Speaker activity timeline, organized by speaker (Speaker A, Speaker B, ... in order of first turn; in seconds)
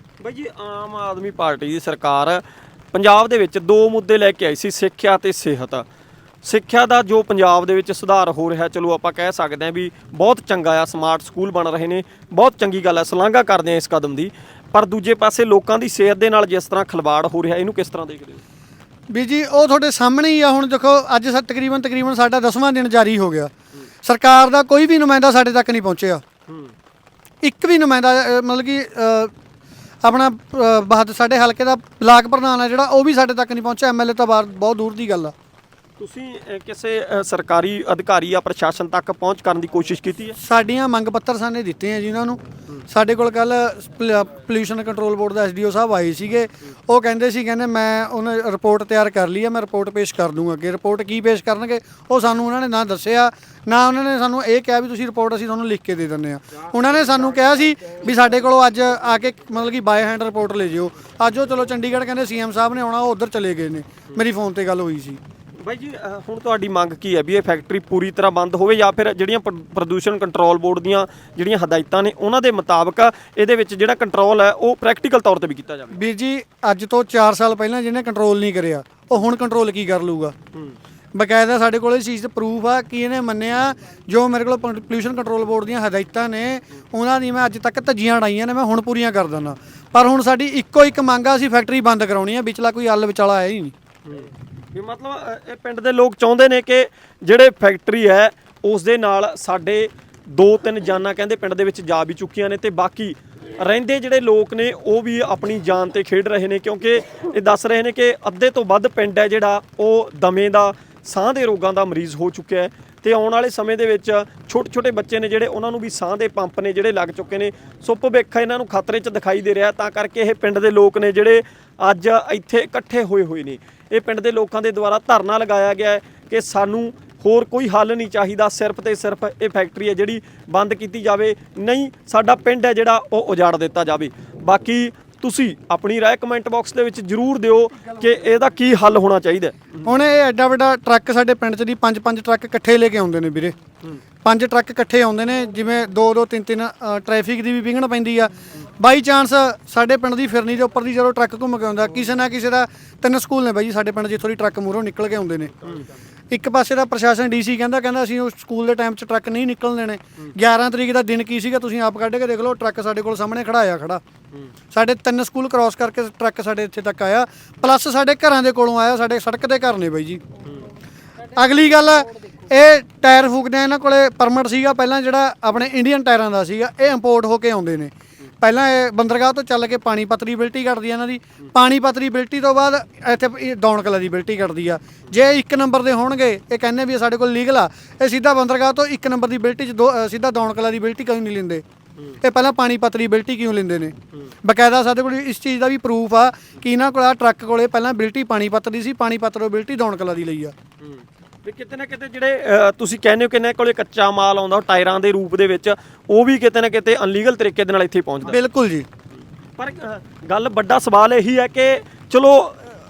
Speaker A: 0.2-5.8, 6.4-18.4, 26.5-26.7, 36.0-40.3, 65.6-75.9, 94.0-139.9, 200.8-208.4, 209.1-212.6
Speaker B: 19.1-23.5, 24.0-26.2, 27.4-29.3, 30.0-35.3, 40.4-65.2, 75.9-80.3, 81.1-93.7, 139.8-143.6, 144.2-155.5, 156.3-164.0, 164.7-170.2, 171.3-191.6, 192.2-200.5, 208.3-208.9